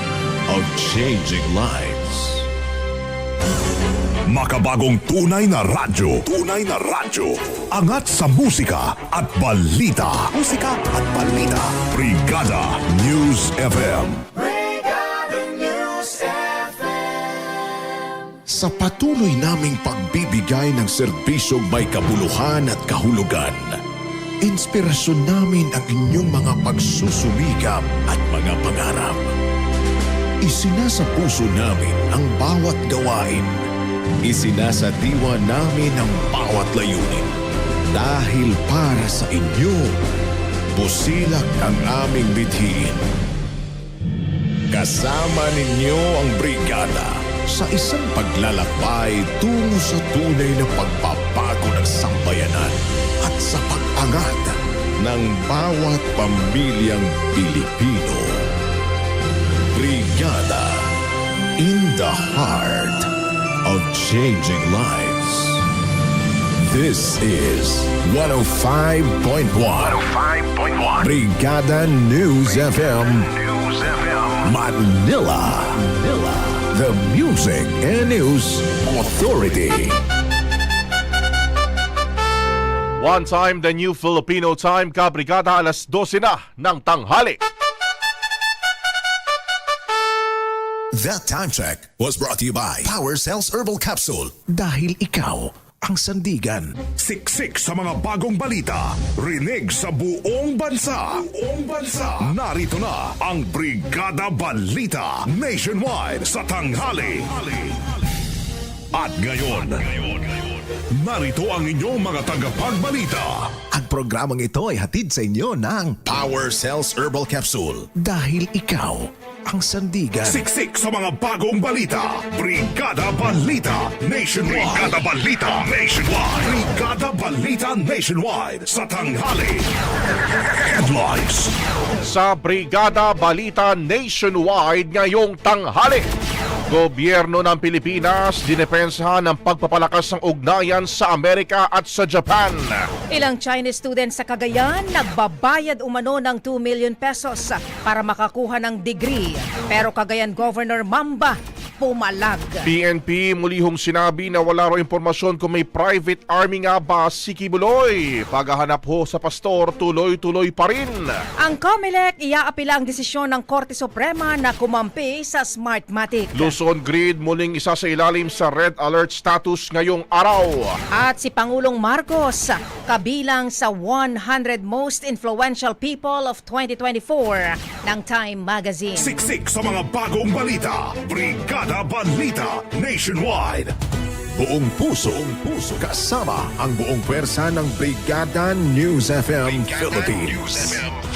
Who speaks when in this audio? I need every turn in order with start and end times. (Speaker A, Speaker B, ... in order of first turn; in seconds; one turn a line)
Speaker A: 0.5-2.5
Speaker B: 4.3-14.2
Speaker A: 18.5-23.8
Speaker A: 24.4-29.3
Speaker A: 30.4-33.7
Speaker A: 34.2-37.3
Speaker A: 37.9-40.0
Speaker A: 40.8-43.0
Speaker A: 44.7-58.5
Speaker A: 59.7-60.9
Speaker A: 61.6-63.1
Speaker A: 63.6-65.7
Speaker A: 66.7-70.1
Speaker A: 71.0-80.0
Speaker C: 83.0-87.4
Speaker A: 91.0-96.8
Speaker B: 97.0-107.8
Speaker B: 108.9-110.4
Speaker B: 111.0-113.5
Speaker A: 113.7-120.4
Speaker B: 120.2-129.7
Speaker B: 130.3-131.5
Speaker C: 132.0-136.1
Speaker C: 136.7-142.8
Speaker D: 143.1-152.7
Speaker C: 152.7-161.1
Speaker D: 161.4-166.5
Speaker C: 166.3-170.8
Speaker D: 170.9-179.1
Speaker B: 178.9-183.7
Speaker A: 184.4-190.8